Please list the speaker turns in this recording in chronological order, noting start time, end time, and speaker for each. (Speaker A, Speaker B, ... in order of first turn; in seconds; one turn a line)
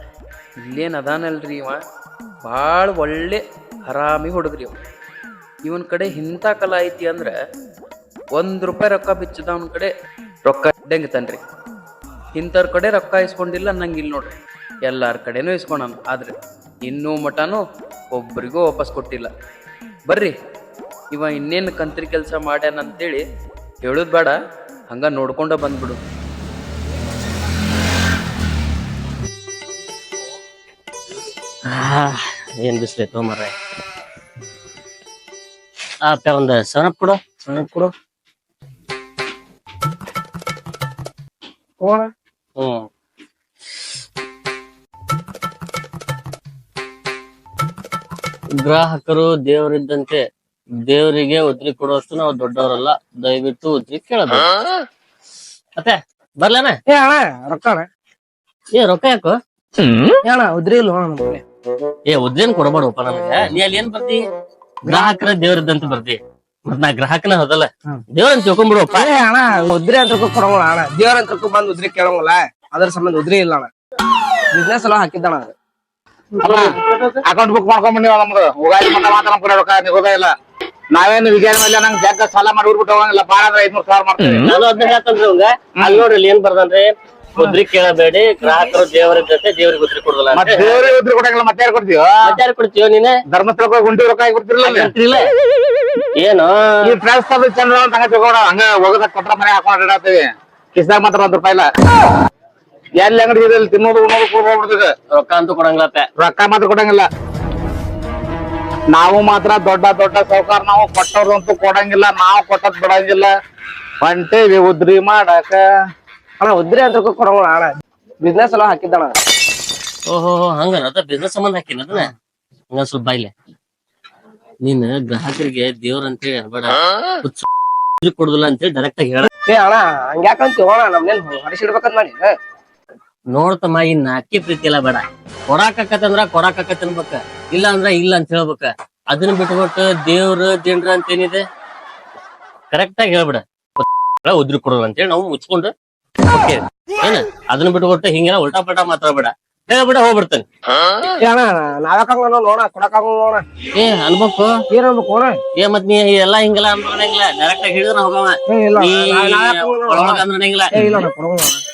Speaker A: 0.7-1.8
Speaker A: 2.4-4.8
Speaker A: 5.7-7.3
Speaker A: 8.3-9.9
Speaker A: 10.4-11.4
Speaker A: 12.3-14.3
Speaker A: 14.9-19.3
Speaker A: 20.1-20.3
Speaker A: 21.1-23.2
Speaker A: 23.8-24.4
Speaker A: 24.9-26.0
Speaker B: 31.7-33.5
Speaker B: 36.0-37.2
Speaker C: 37.5-37.9
Speaker C: 41.8-42.1
Speaker B: 42.6-42.9
Speaker B: 48.6-50.2
Speaker B: 50.8-54.5
Speaker B: 55.8-56.8
Speaker C: 56.9-57.9
Speaker B: 58.7-59.4
Speaker C: 60.2-61.4
Speaker B: 62.1-64.2
Speaker C: 64.9-65.1
Speaker B: 64.9-69.1
Speaker C: 68.9-73.7
Speaker C: 74.5-75.5
Speaker D: 76.4-80.3
Speaker C: 76.4-76.7
Speaker D: 80.9-84.5
Speaker B: 84.4-90.9
Speaker D: 85.8-86.0
Speaker D: 90.3-92.4
Speaker B: 92.2-93.1
Speaker D: 93.3-94.9
Speaker B: 94.6-95.2
Speaker B: 96.2-96.9
Speaker D: 96.8-101.7
Speaker D: 103.0-104.9
Speaker B: 105.2-106.1
Speaker D: 106.2-107.1
Speaker D: 108.9-113.3
Speaker D: 114.0-115.6
Speaker C: 116.4-117.7
Speaker C: 118.2-119.1
Speaker B: 120.1-122.1
Speaker B: 122.7-123.3
Speaker B: 124.6-127.5
Speaker B: 128.0-129.3
Speaker C: 129.4-132.3
Speaker B: 133.3-141.4
Speaker B: 142.7-145.7
Speaker B: 146.3-150.4
Speaker C: 151.2-153.4
Speaker B: 153.8-154.5
Speaker C: 154.7-155.4
Speaker B: 155.6-160.8
Speaker C: 158.5-161.6